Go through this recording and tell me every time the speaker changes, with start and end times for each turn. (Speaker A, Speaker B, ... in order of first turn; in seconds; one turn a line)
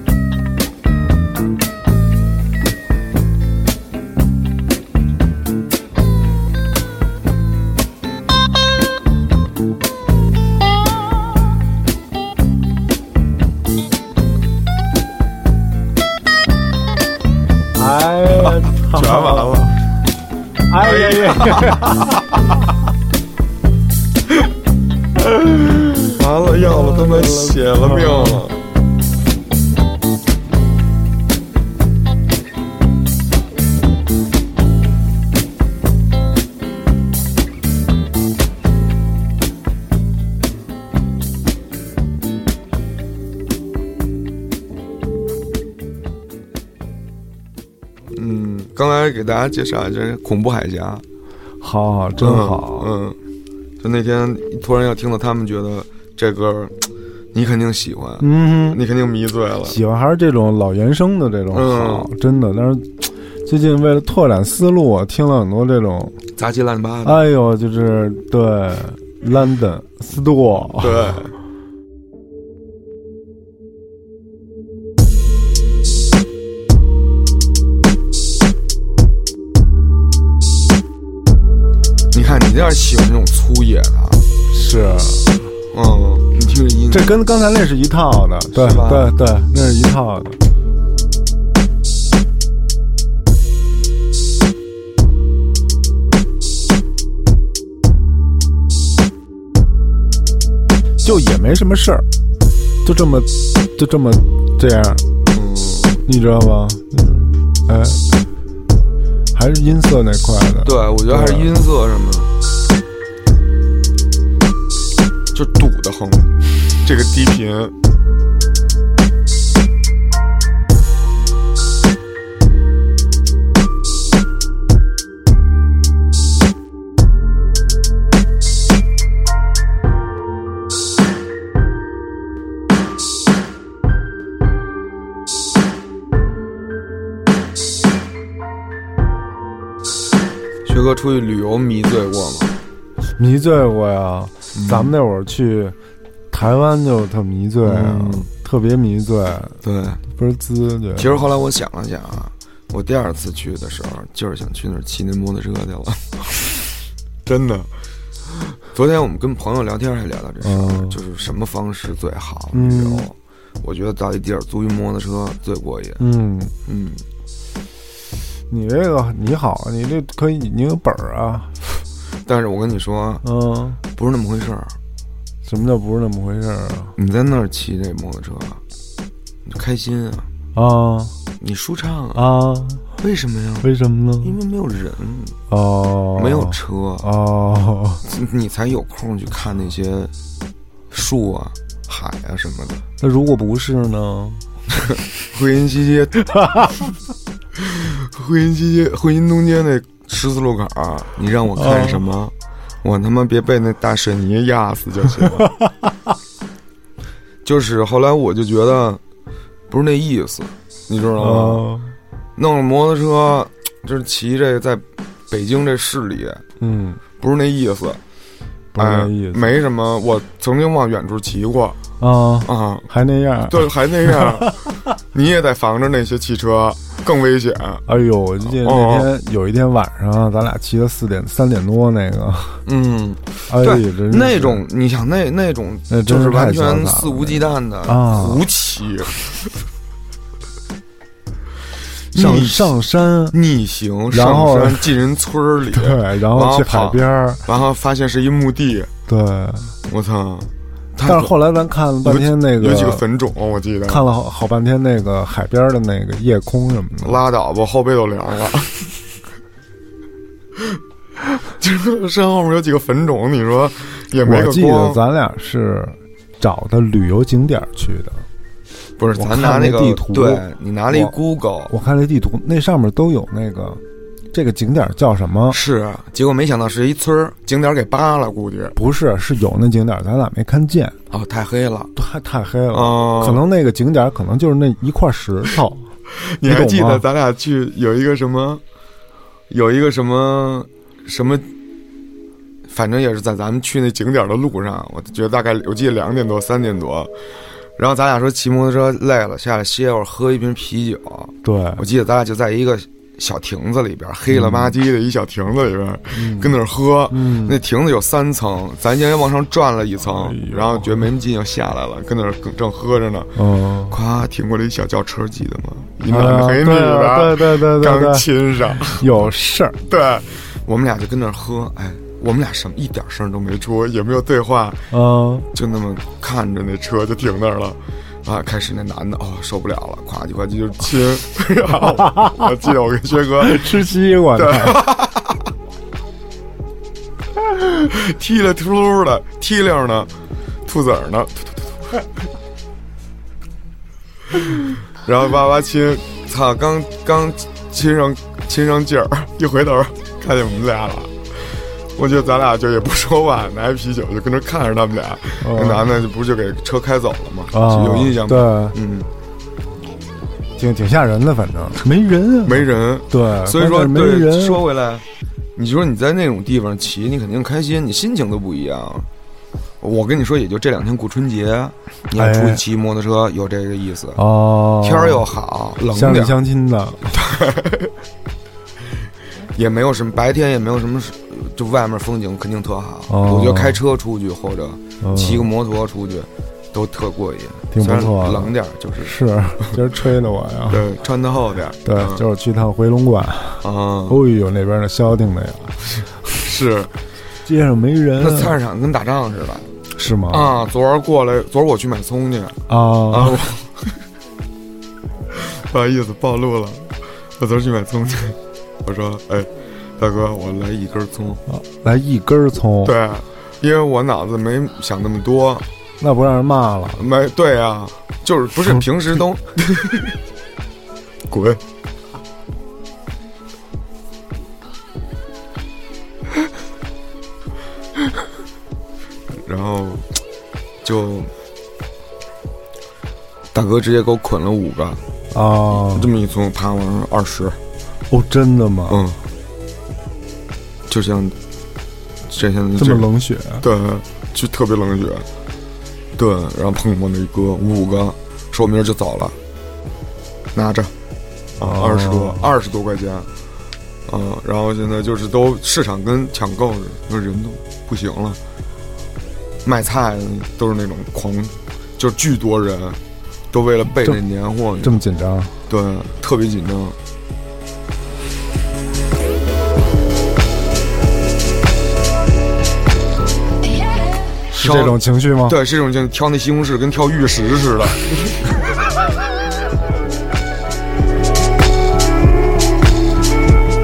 Speaker A: 17.8-19.7
Speaker B: 18.4-19.7
Speaker A: 20.7-22.2
Speaker B: 20.8-22.2
Speaker B: 25.8-28.6
Speaker A: 26.6-28.4
Speaker B: 48.1-51.0
Speaker A: 51.6-52.9
Speaker B: 52.2-53.1
Speaker B: 53.8-56.7
Speaker B: 57.3-59.8
Speaker A: 58.2-58.8
Speaker A: 59.6-66.2
Speaker B: 61.5-62.1
Speaker B: 66.4-67.2
Speaker A: 67.0-71.1
Speaker B: 70.8-71.3
Speaker B: 82.1-84.2
Speaker A: 84.5-85.3
Speaker B: 85.7-87.1
Speaker A: 86.9-90.4
Speaker B: 88.5-89.1
Speaker A: 101.0-102.0
Speaker A: 102.8-105.0
Speaker B: 105.3-106.0
Speaker A: 106.0-108.1
Speaker A: 109.3-111.5
Speaker B: 110.6-112.3
Speaker B: 115.3-116.3
Speaker B: 116.8-117.7
Speaker B: 140.6-142.5
Speaker A: 143.2-145.8
Speaker B: 144.5-144.9
Speaker A: 146.3-149.6
Speaker B: 147.6-148.3
Speaker B: 149.6-150.0
Speaker A: 150.1-151.2
Speaker B: 150.9-156.6
Speaker B: 157.2-157.7
Speaker B: 158.7-166.0
Speaker A: 160.4-161.0
Speaker A: 162.5-163.1
Speaker A: 166.0-166.5
Speaker B: 166.7-167.0
Speaker A: 168.5-171.8
Speaker B: 172.2-173.2
Speaker A: 173.2-173.8
Speaker B: 173.9-174.7
Speaker A: 175.4-176.9
Speaker B: 177.0-178.6
Speaker B: 179.4-180.3
Speaker A: 180.5-181.1
Speaker B: 181.4-182.2
Speaker A: 182.1-182.8
Speaker B: 183.0-183.7
Speaker A: 183.6-184.3
Speaker B: 184.2-185.4
Speaker A: 185.5-188.0
Speaker B: 186.1-187.1
Speaker B: 188.1-190.1
Speaker B: 190.9-192.8
Speaker A: 193.0-194.4
Speaker B: 194.9-196.2
Speaker A: 196.4-196.7
Speaker B: 197.6-205.5
Speaker A: 201.5-202.1
Speaker A: 205.4-205.7
Speaker B: 207.4-209.0
Speaker B: 209.7-211.7
Speaker A: 211.2-211.9
Speaker B: 212.4-216.4
Speaker A: 216.6-217.0
Speaker B: 217.2-218.0
Speaker A: 218.7-219.6
Speaker B: 218.8-221.8
Speaker A: 222.0-224.4
Speaker B: 222.4-222.9
Speaker B: 223.5-227.8
Speaker A: 227.9-232.6
Speaker B: 228.4-229.1
Speaker B: 232.7-239.2
Speaker A: 233.5-234.6
Speaker A: 235.9-238.4
Speaker B: 242.1-242.8
Speaker A: 242.1-243.3
Speaker B: 243.3-248.9
Speaker A: 244.1-244.9
Speaker A: 245.7-247.4
Speaker A: 249.1-249.7
Speaker B: 249.8-251.3
Speaker A: 251.0-253.0
Speaker B: 252.0-254.0
Speaker A: 253.9-257.2
Speaker B: 257.0-258.9
Speaker B: 261.6-265.0
Speaker A: 264.2-268.2
Speaker B: 269.0-271.7
Speaker A: 269.1-271.1
Speaker A: 271.7-273.8
Speaker A: 274.3-275.6
Speaker B: 275.5-278.8
Speaker A: 278.8-280.9
Speaker B: 281.1-281.9
Speaker A: 281.9-285.9
Speaker B: 282.7-283.4
Speaker B: 286.1-288.6
Speaker A: 286.4-287.0
Speaker B: 289.5-291.5
Speaker B: 292.7-297.1
Speaker B: 297.8-319.1
Speaker A: 301.4-301.8
Speaker A: 304.3-304.8
Speaker A: 306.1-306.6
Speaker A: 307.1-307.6
Speaker A: 310.1-311.0
Speaker A: 313.4-314.0
Speaker A: 316.1-318.3
Speaker A: 318.8-319.8
Speaker B: 319.9-324.9
Speaker A: 324.9-325.5
Speaker B: 325.5-333.7
Speaker A: 331.8-332.5
Speaker A: 333.4-334.8
Speaker B: 334.3-335.4
Speaker B: 337.8-340.1
Speaker B: 340.6-341.7
Speaker B: 345.0-351.1
Speaker B: 351.9-359.1
Speaker A: 355.4-356.0
Speaker A: 357.5-358.8
Speaker A: 360.6-364.6
Speaker B: 362.4-365.0
Speaker B: 365.6-369.1
Speaker B: 369.8-374.2
Speaker A: 372.1-372.6
Speaker A: 374.1-375.2
Speaker B: 374.8-376.4
Speaker A: 375.9-377.1
Speaker B: 377.1-377.9
Speaker B: 379.5-389.8
Speaker A: 383.1-383.8
Speaker A: 385.0-385.5
Speaker A: 387.7-390.9
Speaker B: 390.7-392.2
Speaker A: 391.8-395.8
Speaker B: 393.6-394.2
Speaker B: 396.3-396.9
Speaker A: 397.4-398.6
Speaker B: 398.2-399.7
Speaker A: 399.9-400.5
Speaker B: 400.3-403.9
Speaker A: 402.7-403.4
Speaker B: 405.4-411.4
Speaker A: 411.5-412.9
Speaker B: 412.8-415.6
Speaker A: 416.0-417.0
Speaker B: 417.0-420.1
Speaker B: 421.3-421.6
Speaker B: 429.4-430.1
Speaker B: 430.8-431.3
Speaker B: 433.5-435.0
Speaker A: 435.3-436.1
Speaker B: 435.8-437.6
Speaker A: 438.1-439.0
Speaker B: 438.9-439.2
Speaker B: 440.9-441.4
Speaker B: 442.3-443.1
Speaker A: 442.8-443.6
Speaker B: 443.6-445.2
Speaker B: 446.2-449.4
Speaker B: 450.5-450.9
Speaker B: 451.6-453.3
Speaker A: 451.6-452.5
Speaker B: 454.1-458.4
Speaker B: 459.6-463.0
Speaker B: 463.5-465.0
Speaker A: 464.8-465.5
Speaker B: 465.7-466.9
Speaker A: 474.5-475.6
Speaker B: 474.6-478.4